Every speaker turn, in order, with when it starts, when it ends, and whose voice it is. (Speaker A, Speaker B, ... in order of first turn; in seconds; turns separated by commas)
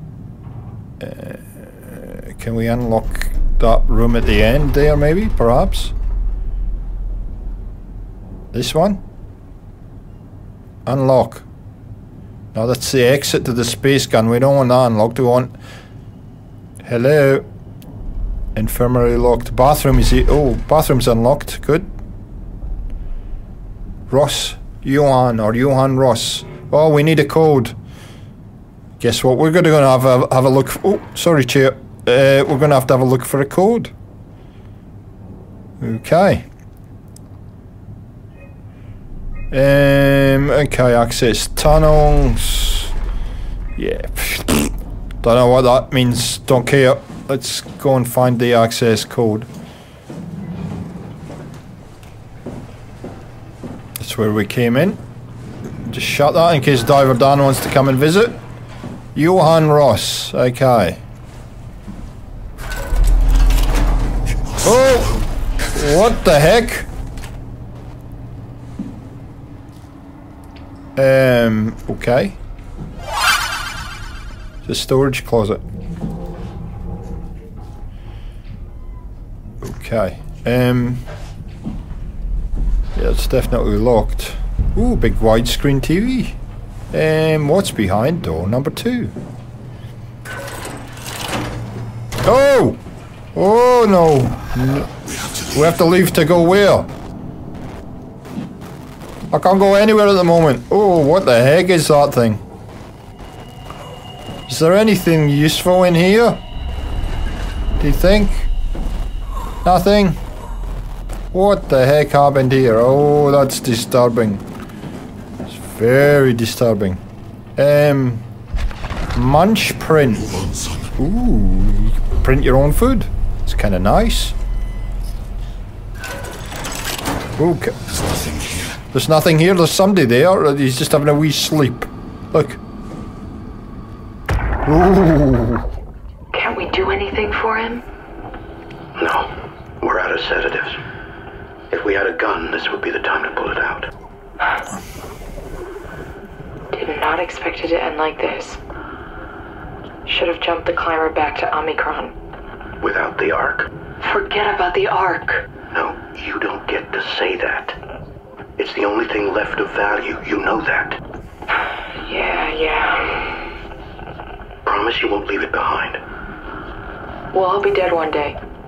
Speaker A: 1.0-5.9, Speaker A: 8.5-9.0, Speaker A: 10.9-11.4, Speaker A: 12.5-15.5, Speaker A: 16.8-17.4, Speaker A: 18.6-21.9, Speaker A: 24.1-27.8, Speaker A: 29.0-33.9, Speaker A: 35.8-36.5, Speaker A: 39.5-42.9, Speaker A: 43.8-49.5, Speaker A: 54.0-55.0, Speaker A: 55.9-58.4, Speaker A: 59.1-61.0, Speaker A: 64.6-65.2, Speaker A: 65.7-66.9, Speaker A: 71.0-72.4, Speaker A: 74.6-75.6, Speaker A: 79.6-81.0, Speaker A: 83.0-86.4, Speaker A: 86.9-89.2, Speaker A: 92.2-92.8, Speaker A: 93.3-94.9, Speaker A: 95.5-96.9, Speaker A: 99.3-102.4, Speaker A: 104.5-106.4, Speaker A: 107.8-108.5, Speaker A: 109.6-110.2, Speaker A: 111.3-114.4, Speaker A: 115.5-117.0, Speaker A: 117.6-118.2, Speaker A: 119.1-120.3, Speaker A: 121.0-124.3, Speaker A: 127.4-127.8, Speaker A: 128.9-132.6, Speaker A: 134.7-135.7, Speaker B: 136.3-137.8, Speaker C: 139.0-140.8, Speaker C: 141.7-143.9, Speaker B: 146.7-148.6, Speaker B: 150.1-152.2, Speaker C: 152.8-153.7, Speaker B: 154.0-155.5, Speaker C: 155.7-157.8, Speaker C: 158.6-161.0, Speaker B: 162.1-163.4, Speaker C: 164.7-166.0, Speaker B: 167.3-168.4